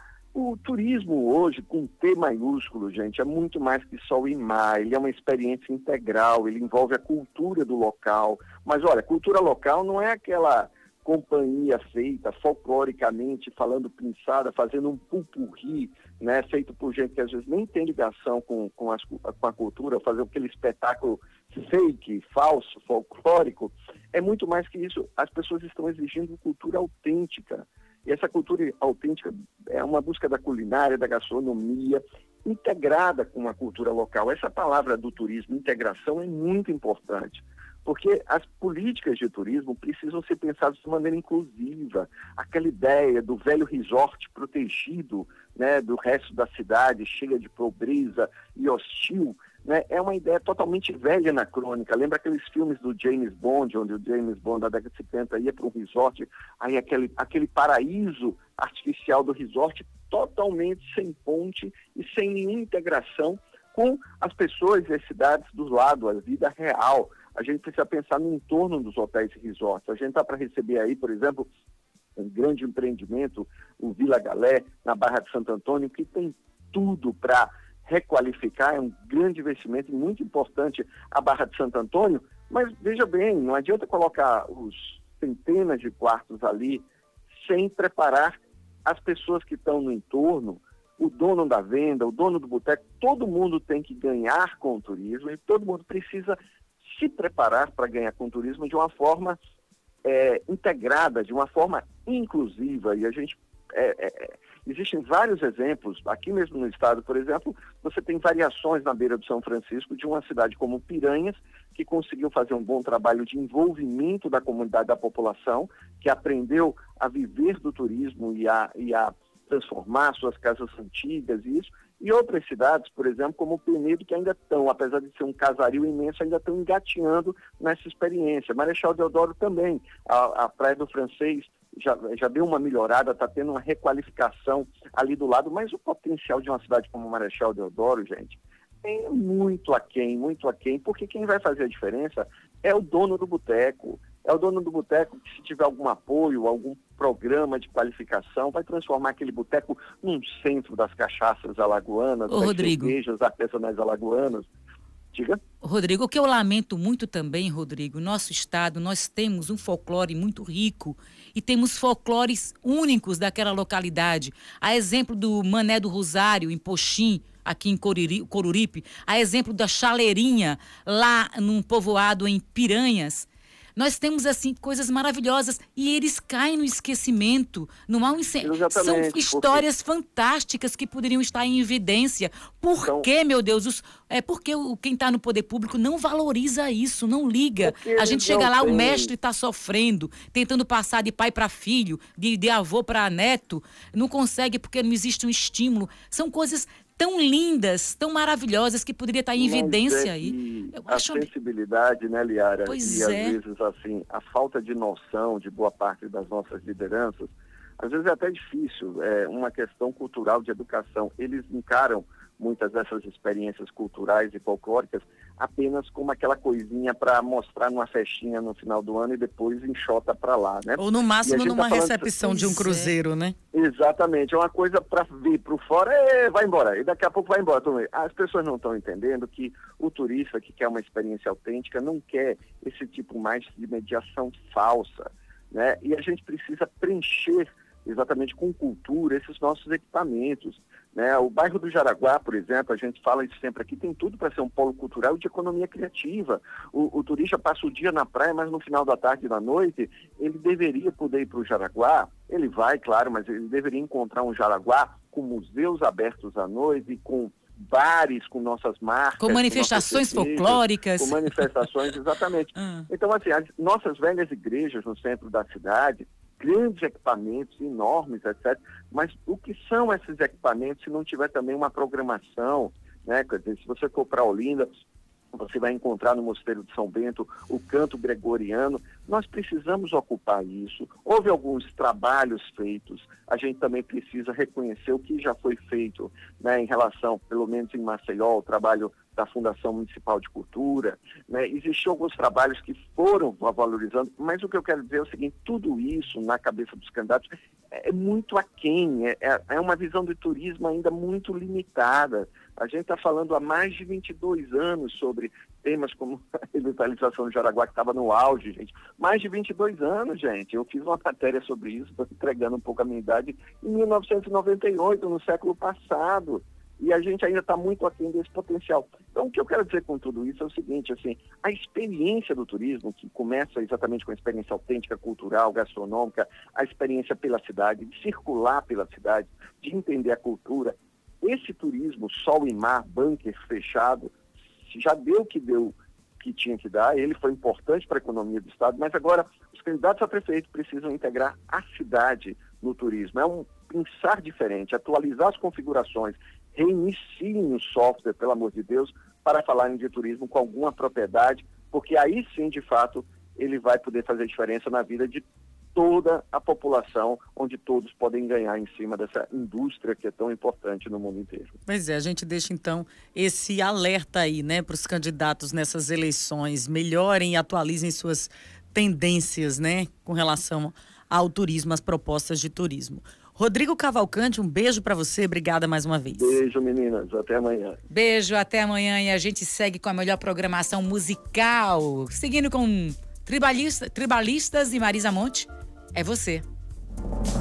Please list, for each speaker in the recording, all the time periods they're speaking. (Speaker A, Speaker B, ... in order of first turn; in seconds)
Speaker A: 0.3-71.5, 72.2-99.4, 100.0-154.5, 155.1-155.4, 178.4-179.6, 182.8-183.1, 187.6-189.1, 199.4-222.1, 223.5-274.7, 275.3-355.2, 355.8-361.6, 376.1-377.8
Speaker B: 152.3-152.9, 155.6-201.3, 202.7-203.4, 222.2-222.9, 259.2-261.7, 262.6-262.9, 377.9-386.4
Speaker C: 220.8-223.3, 361.7-376.4